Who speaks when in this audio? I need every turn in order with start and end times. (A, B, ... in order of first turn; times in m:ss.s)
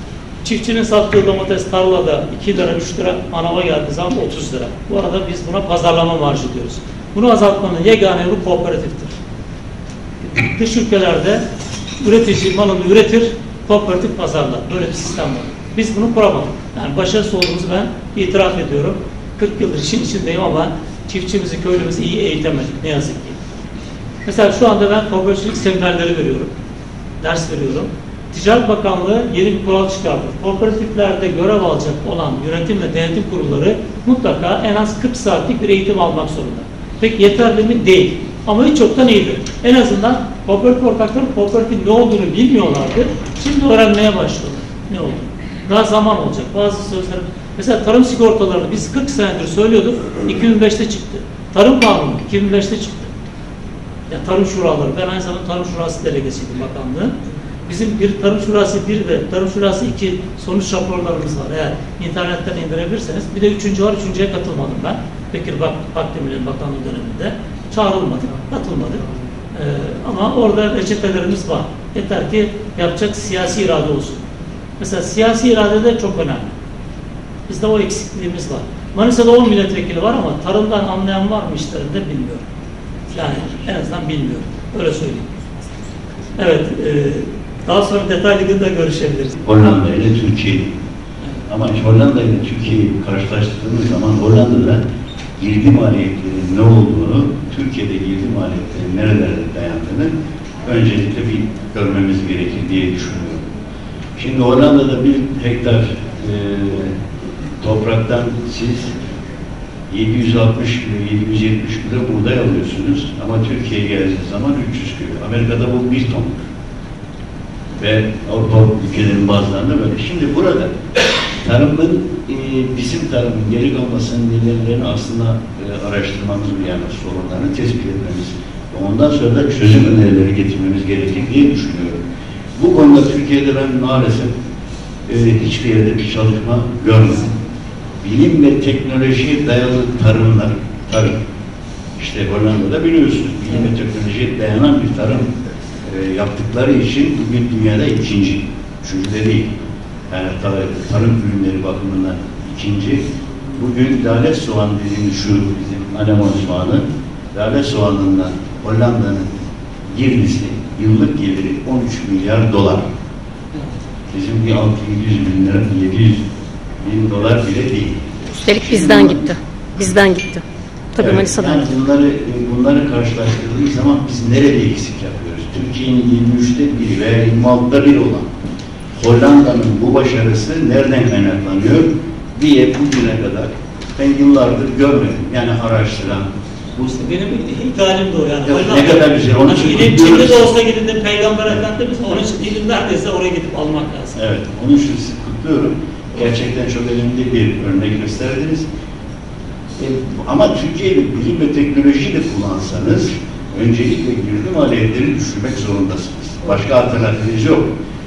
0:00.4-0:09.1 A
0:10.3-0:11.4 A
0:12.0-0:23.4 A
0:24.2-0:26.5 A
0:27.2-0:53.1 A
0:54.1-0:57.1 A
0:57.7-1:14.2 A
1:14.8-1:16.5 A
1:17.5-1:22.4 A
1:23.1-1:25.6 A
1:26.4-1:29.3 A
1:29.4-1:30.7 B
1:31.5-1:34.8 B
1:35.4-1:40.1 B
1:40.6-1:43.4 B
1:44.2-1:47.0 B
1:47.6-1:48.9 B
1:49.9-1:56.4 B
1:57.8-2:00.7 B
2:01.4-2:12.0 B
2:12.5-2:14.3 B
2:15.1-2:17.3 B
2:18.0-2:21.2 B
2:22.0-2:29.5 B
2:30.1-2:39.3 B
2:39.9-2:42.8 B
2:44.1-2:46.2 B
2:46.8-2:48.1 B
2:48.4-2:50.4 C
2:48.6-2:49.3 B
2:50.9-2:51.6 C
2:51.0-2:58.3 B
2:59.0-3:06.9 B
3:06.8-3:14.2 A
3:08.4-3:10.5 B
3:14.2-3:18.7 B
3:19.8-3:27.7 B